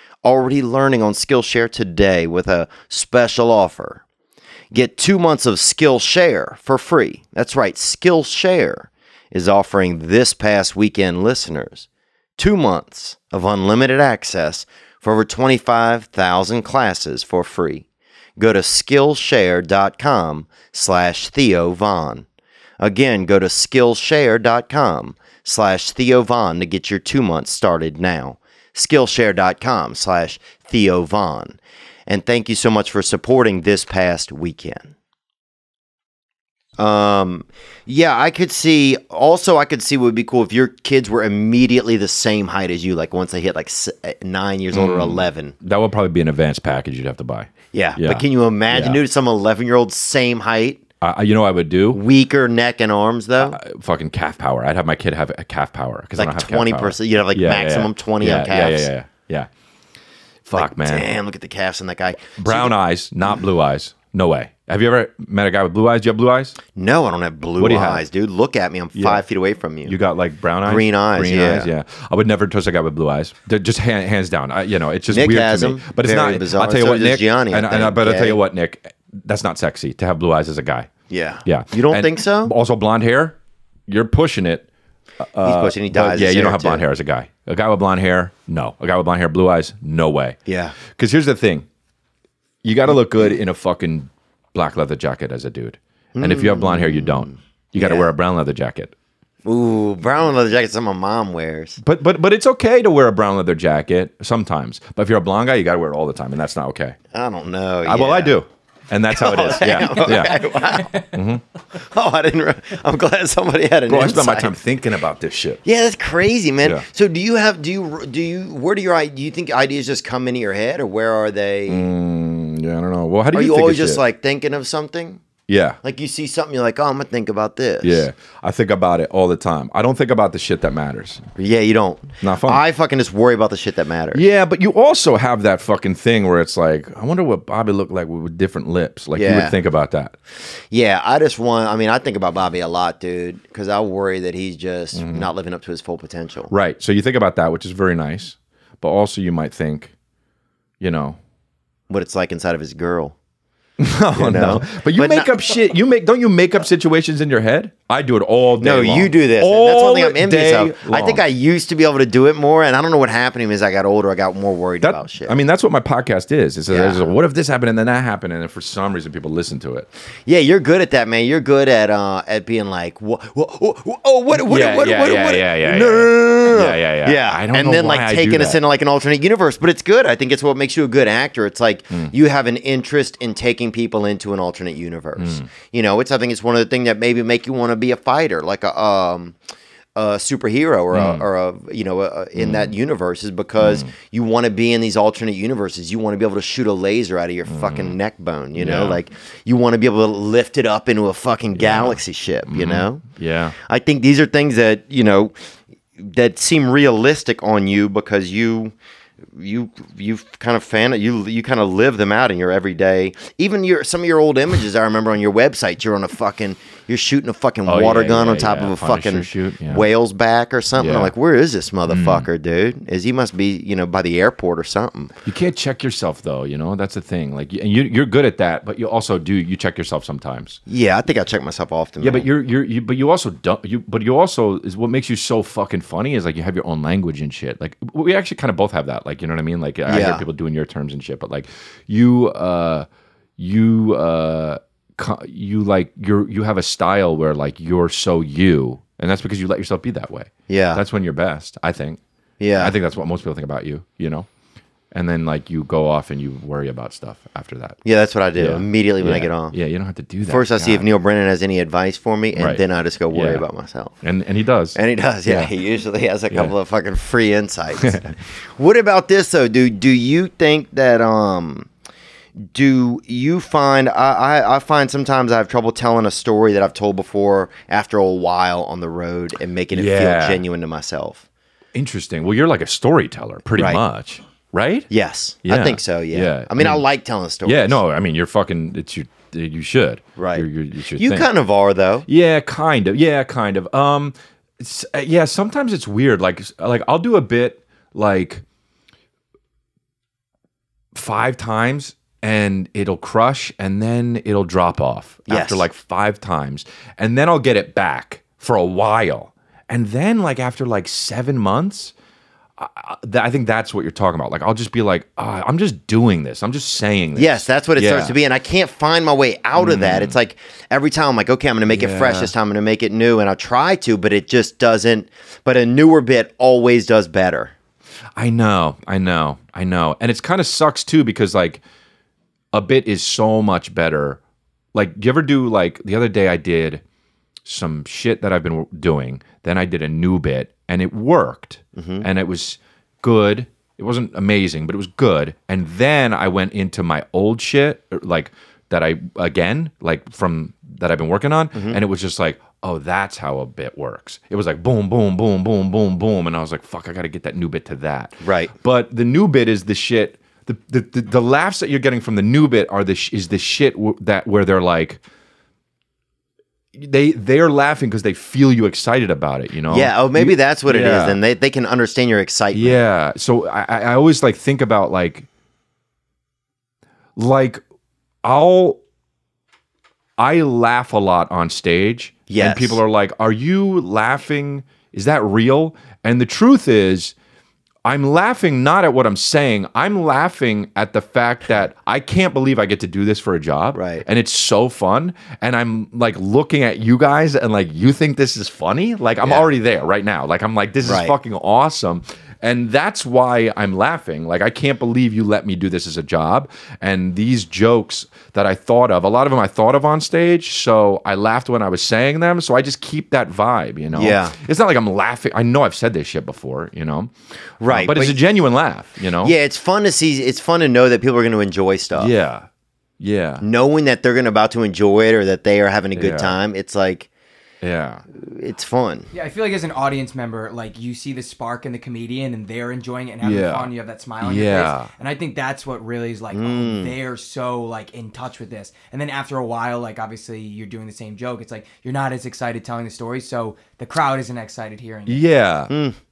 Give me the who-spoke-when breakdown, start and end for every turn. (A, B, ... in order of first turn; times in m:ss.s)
0:00.2-0:04.0 A
0:04.7-0:11.9 A
0:12.4-0:17.8 A
0:18.4-0:22.3 A
0:22.8-0:34.9 A
0:36.8-0:45.6 A
0:44.7-0:49.0 B
0:47.7-0:50.8 A
0:51.0-0:52.0 B
0:51.9-0:53.6 A
0:53.4-0:59.5 B
0:56.2-0:58.9 A
1:00.4-1:01.1 B
1:00.6-1:02.8 A
1:02.4-1:06.6 B
1:06.7-1:10.0 A
1:07.6-1:08.1 B
1:09.0-1:09.2 B
1:09.8-1:20.9 B
1:10.6-1:11.7 A
1:15.1-1:18.4 A
1:21.1-1:22.5 A
1:21.4-1:24.7 B
1:25.2-1:31.7 B
1:25.4-1:26.8 A
1:30.5-1:30.8 A
1:32.6-1:38.9 B
1:36.2-1:38.1 A
1:39.4-1:41.8 A
1:41.8-1:47.0 B
1:47.1-1:48.4 A
1:47.8-1:51.4 B
1:49.1-1:51.1 A
1:51.8-1:54.5 A
1:53.9-1:55.6 B
1:55.6-2:01.9 A
2:01.7-2:04.0 B
2:03.3-2:05.2 A
2:05.5-2:05.8 B
2:05.8-2:08.1 A
2:07.8-2:11.3 B
2:11.4-2:14.2 A
2:12.2-2:12.6 B
2:14.1-2:20.1 B
2:19.2-2:19.6 A
2:20.4-2:26.5 A
2:24.9-2:25.3 B
2:26.5-2:29.9 B
2:30.8-2:31.2 B
2:31.9-2:33.2 A
2:33.8-2:41.2 B
2:34.2-2:35.3 A
2:38.6-2:45.4 A
2:44.8-2:49.9 B
2:46.7-2:47.1 A
2:50.3-3:09.4 A
2:54.3-2:58.6 B
3:05.2-3:05.5 B
3:10.0-3:23.0 A
3:10.9-3:11.3 B
3:12.4-3:12.8 B
3:13.6-3:13.9 B
3:17.5-3:18.0 B
3:18.6-3:19.0 B
3:21.6-3:23.6 B
3:23.7-3:25.3 A
3:26.0-3:28.7 A
3:29.4-3:45.1 A
3:37.7-3:39.9 B
3:40.8-3:41.1 B
3:41.9-3:42.3 B
3:45.2-3:50.6 B
3:50.7-3:52.3 A
3:52.0-4:02.9 B
3:59.9-4:00.2 A
4:03.4-4:12.0 B
4:10.5-4:10.8 A
4:12.4-4:12.8 A
4:12.6-4:14.3 B
4:14.9-4:17.8 B
4:17.8-4:19.6 A
4:18.4-4:20.9 B
4:20.3-4:24.0 A
4:22.3-4:23.4 B
4:24.0-4:25.5 B
4:24.8-4:31.7 A
4:32.4-4:41.2 A
4:39.7-4:40.4 B
4:41.7-4:44.9 B
4:43.6-4:43.8 A
4:44.9-4:47.8 A
4:45.4-4:46.8 B
4:47.4-4:51.3 B
4:50.2-4:52.1 A
4:52.1-4:58.4 B
5:00.9-5:11.9 B
5:05.3-5:05.6 A
5:12.6-5:18.2 B
5:17.2-5:27.5 A
5:19.6-5:20.2 B
5:21.7-5:22.3 B
5:28.2-5:31.6 B
5:32.5-5:34.2 B
5:34.7-5:36.8 B
5:37.4-6:05.0 B
5:41.8-5:42.1 A
5:51.5-5:51.8 A
5:58.2-5:58.5 A
6:06.8-6:11.2 B
6:09.7-6:12.8 A
6:12.5-6:15.3 B
6:17.2-6:17.6 B
6:18.2-6:18.8 B
6:20.2-6:27.1 B
6:22.3-6:22.8 A
6:27.8-6:59.4 B
6:33.7-6:34.0 A
6:39.2-6:39.5 A
6:40.8-6:41.1 A
6:53.9-6:54.4 A
6:57.6-6:58.2 A
6:59.2-7:02.1 A
7:02.0-7:02.5 B
7:03.0-7:03.4 B
7:03.4-7:07.1 A
7:06.0-7:06.4 B
7:07.6-7:08.0 B
7:08.1-7:09.1 A
7:09.1-7:25.2 C
7:13.2-7:14.9 B
7:16.3-7:16.9 A
7:25.1-7:25.7 B
7:25.7-7:26.0 A